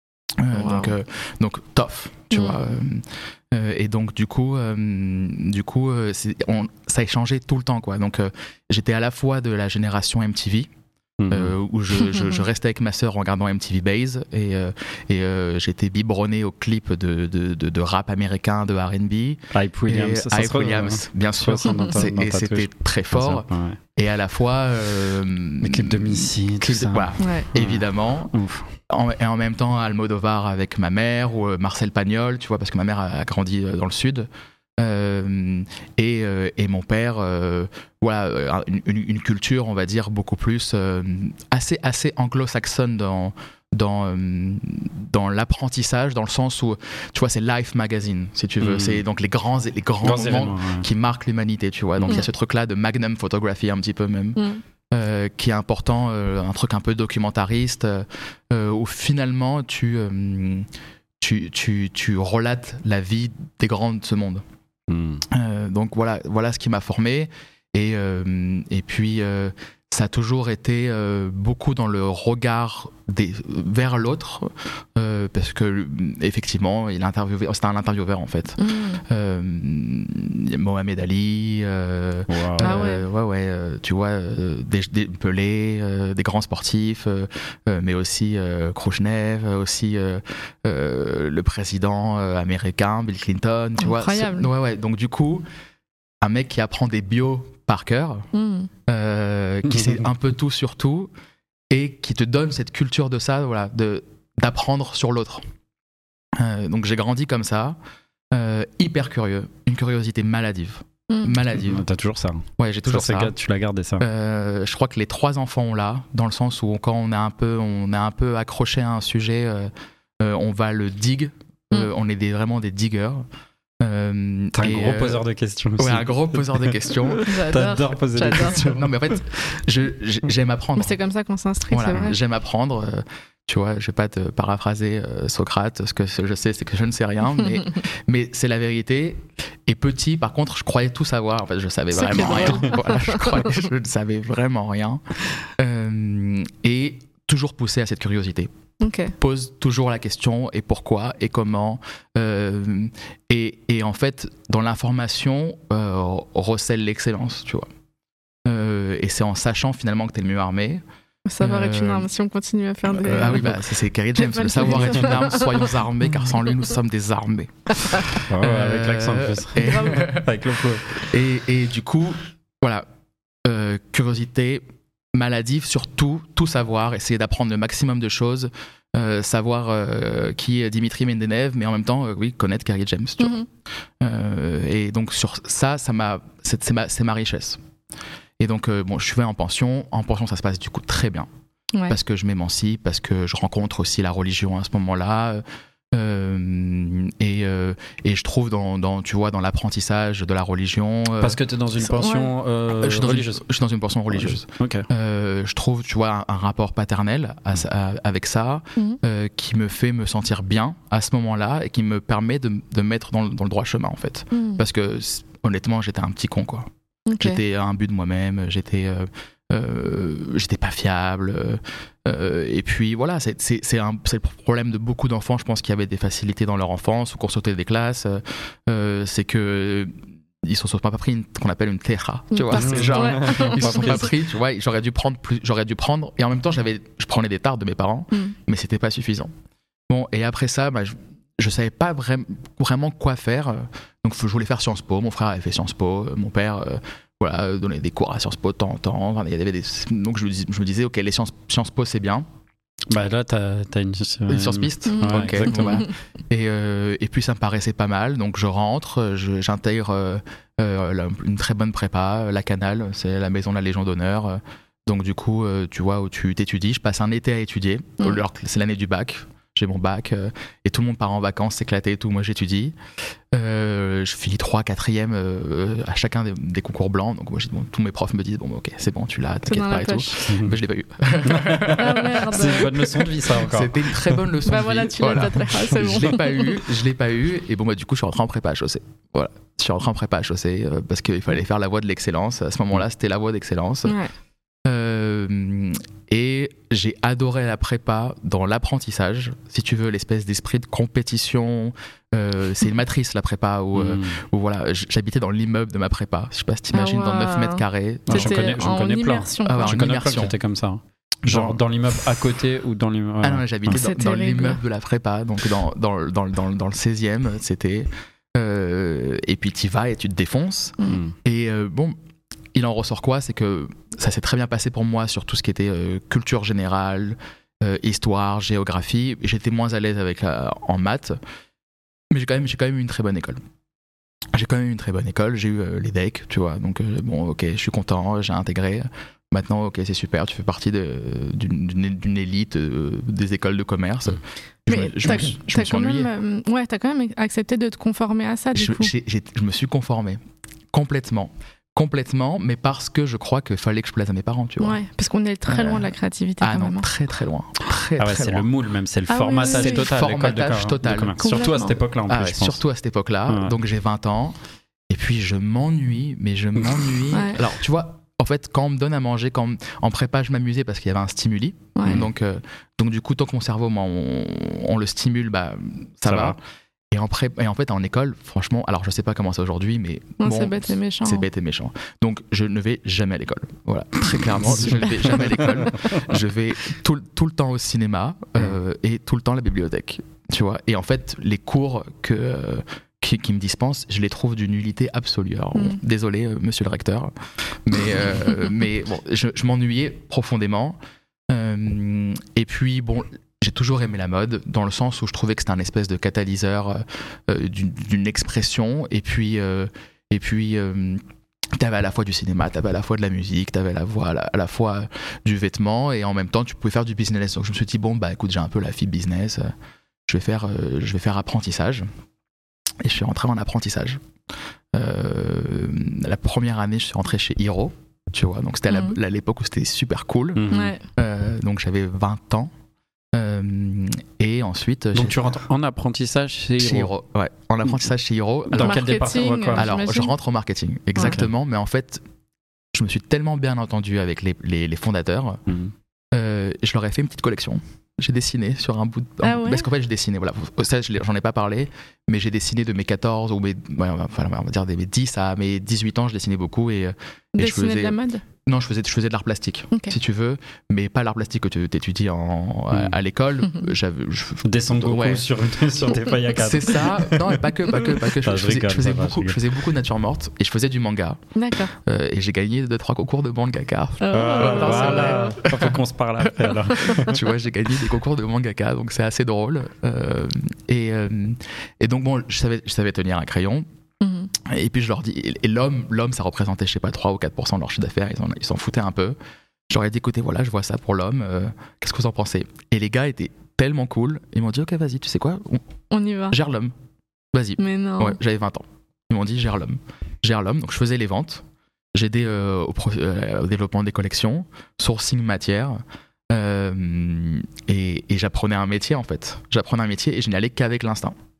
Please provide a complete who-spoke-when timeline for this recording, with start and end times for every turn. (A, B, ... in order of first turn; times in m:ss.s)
0:00.4-0:10.7 A
0:00.5-0:00.9 B
0:02.3-0:02.6 B
0:11.2-0:11.6 C
0:11.3-0:28.3 A
0:12.1-0:12.4 B
0:19.5-0:23.8 C
0:25.6-0:28.7 C
0:27.2-0:27.5 B
0:28.9-0:34.3 A
0:34.8-1:00.7 A
0:48.6-0:49.0 C
0:50.0-0:50.8 C
0:52.0-0:52.2 C
0:54.4-0:54.6 B
1:01.2-1:04.4 A
1:04.9-1:05.2 C
1:05.3-1:35.4 A
1:18.6-1:19.0 B
1:22.3-1:22.8 C
1:22.6-1:23.0 B
1:33.8-1:34.5 B
1:36.2-1:38.3 A
1:38.3-1:38.7 B
1:38.9-1:41.1 A
1:39.7-1:40.0 C
1:41.7-1:45.4 A
1:46.3-1:47.8 A
1:48.3-1:51.8 A
1:51.1-1:51.4 B
1:51.4-1:54.0 C
1:52.6-1:53.3 A
1:54.0-2:03.2 A
2:03.8-2:05.2 A
2:04.5-2:09.2 C
2:05.8-2:07.3 A
2:07.2-2:08.6 B
2:08.4-2:11.0 A
2:10.8-2:12.2 B
2:11.7-2:28.5 A
2:21.9-2:23.6 B
2:28.8-2:29.1 B
2:29.2-2:37.7 A
2:38.4-2:40.8 A
2:41.2-2:45.7 B
2:41.4-2:42.1 A
2:42.9-2:52.9 A
2:48.3-2:51.0 C
2:49.6-2:50.1 B
2:53.4-3:03.4 A
3:03.2-3:03.5 B
3:04.0-3:07.6 A
3:08.4-3:11.3 A
3:11.9-3:22.0 A
3:21.2-3:23.4 C
3:22.0-3:22.3 B
3:22.7-3:36.7 A
3:24.1-3:24.9 C
3:34.3-3:34.6 B
3:37.1-3:37.4 B
3:37.2-3:59.3 A
3:52.3-3:54.1 B
3:52.5-3:54.1 C
3:59.9-4:12.2 A
4:12.9-4:15.9 C
4:14.3-4:32.8 A
4:14.9-4:15.9 B
4:33.3-4:53.9 A
4:39.5-4:40.2 B
4:40.3-4:40.6 C
4:41.2-4:44.2 C
4:41.7-4:42.8 B
4:44.4-4:46.6 B
4:53.8-4:54.1 B
4:54.6-5:08.6 A
5:03.7-5:04.2 C
5:06.7-5:09.8 B
5:08.1-5:13.8 C
5:09.4-5:10.4 A
5:11.2-5:11.6 A
5:13.2-5:22.0 A
5:13.7-5:14.6 B
5:20.8-5:21.1 B
5:20.8-5:21.1 C
5:22.5-5:31.2 A
5:32.1-5:33.4 A
5:34.3-5:46.1 A
5:44.7-5:48.9 B
5:48.5-5:50.2 A
5:50.7-5:54.8 A
5:54.6-5:56.9 B
5:55.5-5:58.5 A
5:58.0-6:02.6 C
5:59.1-5:59.9 B
5:59.5-6:04.4 A
6:01.2-6:01.8 B
6:03.3-6:03.5 C
6:04.9-6:16.4 A
6:06.6-6:07.0 C
6:07.1-6:07.4 B
6:11.8-6:12.0 B
6:16.0-6:16.4 C
6:16.9-6:40.8 A
6:20.2-6:21.3 B
6:24.8-6:25.5 B
6:41.3-6:51.0 A
6:51.5-6:59.5 A
7:00.1-7:01.9 A
7:02.8-7:04.0 A
7:04.7-7:12.5 A
7:08.7-7:09.0 B
7:10.3-7:10.8 C
7:10.5-7:10.8 B
7:13.1-7:15.3 A
7:14.9-7:16.9 C
7:16.6-7:18.9 A
7:18.5-7:19.7 C
7:18.6-7:20.1 B
7:19.5-7:22.0 A
7:21.0-7:21.3 C
7:22.7-7:25.4 A
7:25.5-7:25.7 C
7:26.1-7:45.3 A
7:29.2-7:29.6 B
7:37.4-7:38.2 B
7:42.7-7:43.0 C
7:44.4-7:47.4 C
7:46.3-7:51.2 A
7:48.0-7:49.4 C
7:51.4-7:51.7 B
7:51.7-7:55.7 A
7:54.0-7:55.4 B
7:54.1-7:57.2 C
7:56.5-8:03.7 A
8:04.0-8:04.3 B
8:04.4-8:09.2 A
8:09.7-8:15.6 A
8:15.9-8:16.4 B
8:16.3-8:16.7 A
8:17.3-8:21.4 A
8:17.6-8:18.2 B
8:21.9-8:25.8 A
8:26.3-8:31.1 A